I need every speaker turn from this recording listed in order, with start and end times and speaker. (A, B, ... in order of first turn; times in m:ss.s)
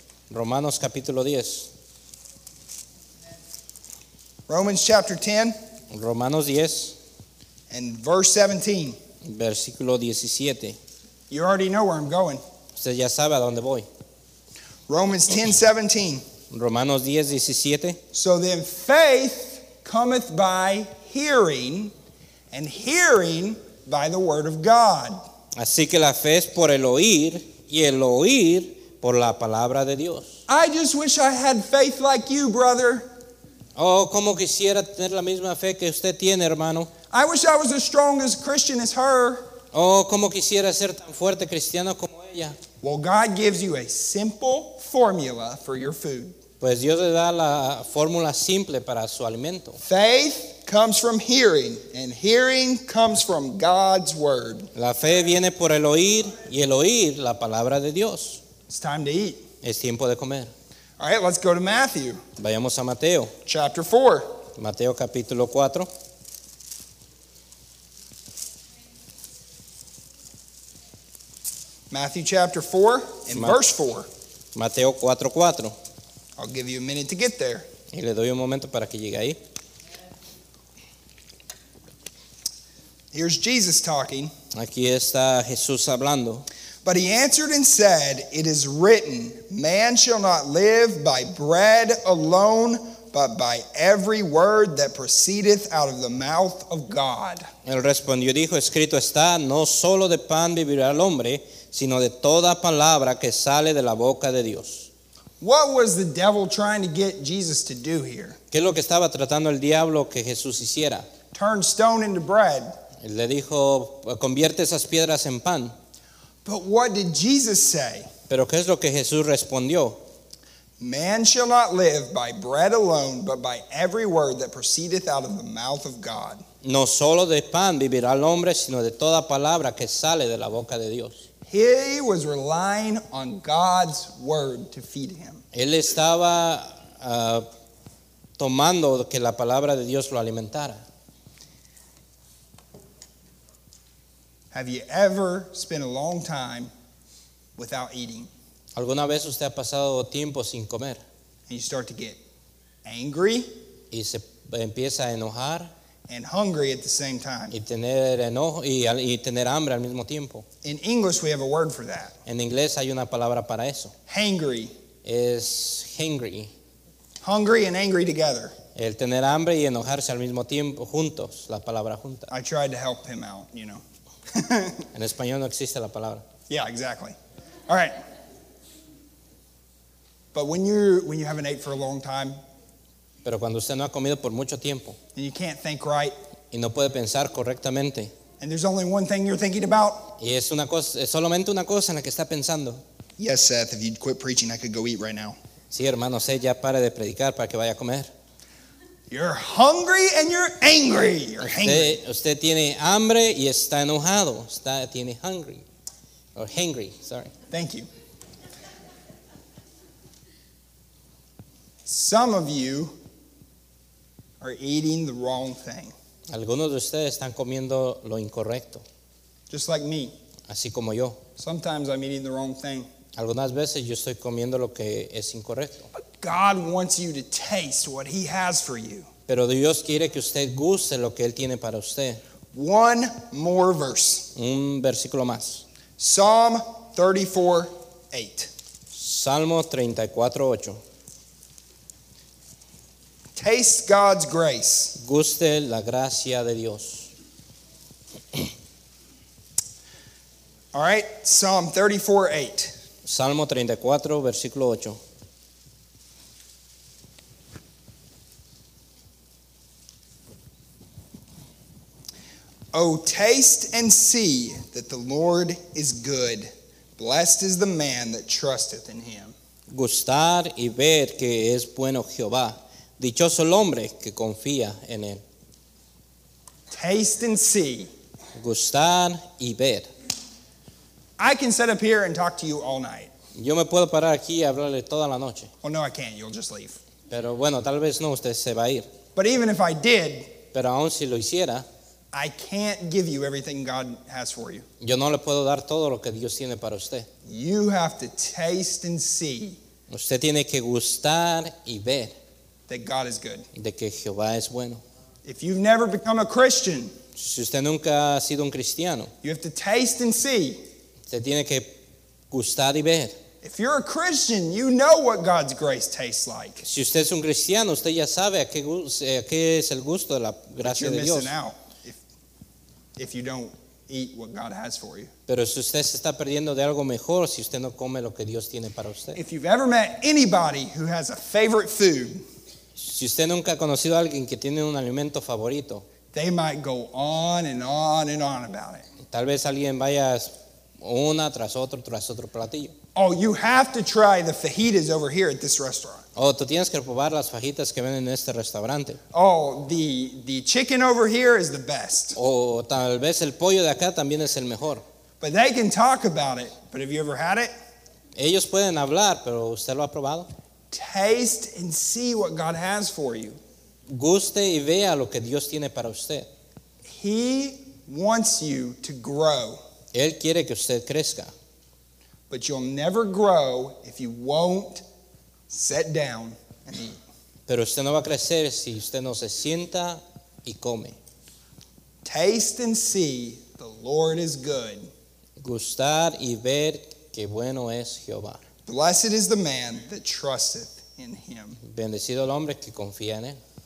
0:00.3-0:01.7 A
0:04.5-0:05.6 B
0:05.9-0:07.0 A
0:07.7-0:09.0 B
0:09.2-0:10.8 A
0:11.3-0:12.4 B
0:12.8-0:13.9 A
0:14.9-0:16.2 B
0:16.5-0:18.0 A
0:18.1-0:21.9 B
0:22.5-0:25.2 B
0:25.6-0:30.4 A
0:30.5-0:33.1 B
0:33.8-0:36.9 A
0:37.1-0:39.5 B
0:39.7-0:42.6 A
0:42.8-0:46.4 B
0:46.6-0:49.8 A
0:49.8-0:54.7 B
0:54.8-0:58.4 A
0:58.7-0:59.4 B
0:59.6-1:00.5 A
1:01.0-1:02.2 B
1:02.4-1:03.3 A
1:03.5-1:04.3 B
1:04.5-1:05.9 A
1:11.9-1:14.1 B
1:13.3-1:13.6 A
1:14.5-1:15.8 A
1:16.4-1:17.7 B
1:17.9-1:19.4 A
1:23.1-1:24.3 B
1:24.5-1:26.5 A
1:26.8-1:37.5 B
1:37.6-1:44.9 A
1:45.4-1:48.4 B
1:48.5-1:51.1 A
1:51.3-1:52.8 B
1:53.0-1:55.8 A
1:56.4-1:58.1 B
1:58.3-2:00.0 A
2:00.8-2:06.4 B
2:06.6-2:11.3 A
2:11.5-2:15.4 B
2:15.5-2:17.5 A
2:18.4-2:20.8 A
2:24.5-2:26.7 B
2:27.6-2:28.3 B
2:28.8-2:31.0 A
2:31.5-2:32.2 B
2:32.8-2:33.5 B
2:33.9-2:35.7 A
2:36.1-2:37.6 B
2:37.5-2:40.5 A
2:40.6-2:42.2 B
2:42.3-2:43.9 A
2:44.1-2:44.7 B
2:45.0-2:46.5 A
2:47.2-2:48.6 B
2:48.8-2:52.3 A
2:52.3-2:54.9 B
2:54.9-2:56.2 A
2:56.5-2:57.2 B
2:57.7-2:58.0 B
3:00.3-3:02.4 B
3:03.2-3:05.0 A
3:05.2-3:06.2 B
3:06.5-3:08.1 A
3:08.4-3:10.2 B
3:10.2-3:12.8 A
3:13.2-3:15.4 B
3:15.7-3:18.1 A
3:19.1-3:22.0 B
3:21.4-3:25.6 A
3:26.4-3:27.3 A
3:27.5-3:27.9 B
3:31.9-3:33.0 B
3:34.4-3:35.9 B
3:36.3-3:38.8 A
3:39.5-3:40.1 B
3:40.5-3:41.2 A
3:41.4-3:42.9 B
3:43.2-3:45.9 A
3:45.9-3:49.1 B
3:49.3-3:52.2 A
3:52.5-3:54.3 B
3:54.4-3:55.6 A
3:56.0-3:58.5 B
3:58.9-4:00.8 A
4:03.4-4:05.0 B
4:05.0-4:07.1 A
4:10.7-4:12.7 B
4:13.0-4:15.0 A
4:22.7-4:29.4 B
4:29.7-4:35.2 A
4:36.7-4:37.9 B
4:38.4-4:39.9 A
4:41.2-4:43.1 B
4:43.4-4:45.5 A
4:45.6-4:46.8 B
4:47.1-4:48.9 A
4:49.2-4:50.4 B
4:50.5-4:51.7 A
4:52.1-4:54.6 B
4:54.8-4:57.1 A
4:57.3-4:59.6 B
4:59.9-5:02.2 A
5:02.7-5:03.5 B
5:03.5-5:04.8 A
5:05.2-5:07.0 B
5:07.2-5:09.1 A
5:09.2-5:10.6 B
5:11.1-5:11.8 A
5:12.3-5:13.2 A
5:13.4-5:16.6 B
5:16.6-5:21.3 A
5:20.6-5:22.0 B
5:23.0-5:25.1 B
5:25.3-5:29.2 A
5:29.2-5:32.2 B
5:32.8-5:35.8 A
5:36.1-5:38.9 B
5:39.1-5:42.7 A
5:43.0-5:46.0 B
5:46.2-5:49.0 A
5:49.1-5:52.2 B
5:52.2-5:54.8 A
5:55.2-5:57.5 B
5:58.2-6:00.3 A
6:00.7-6:03.4 B
6:03.9-6:06.3 A
6:06.9-6:09.6 B
6:09.9-6:11.3 A
6:12.3-6:14.8 B
6:15.5-6:17.0 B
6:17.5-6:21.0 A
6:22.0-6:24.9 B
6:25.4-6:28.4 A
6:28.7-6:31.6 B
6:31.6-6:33.4 A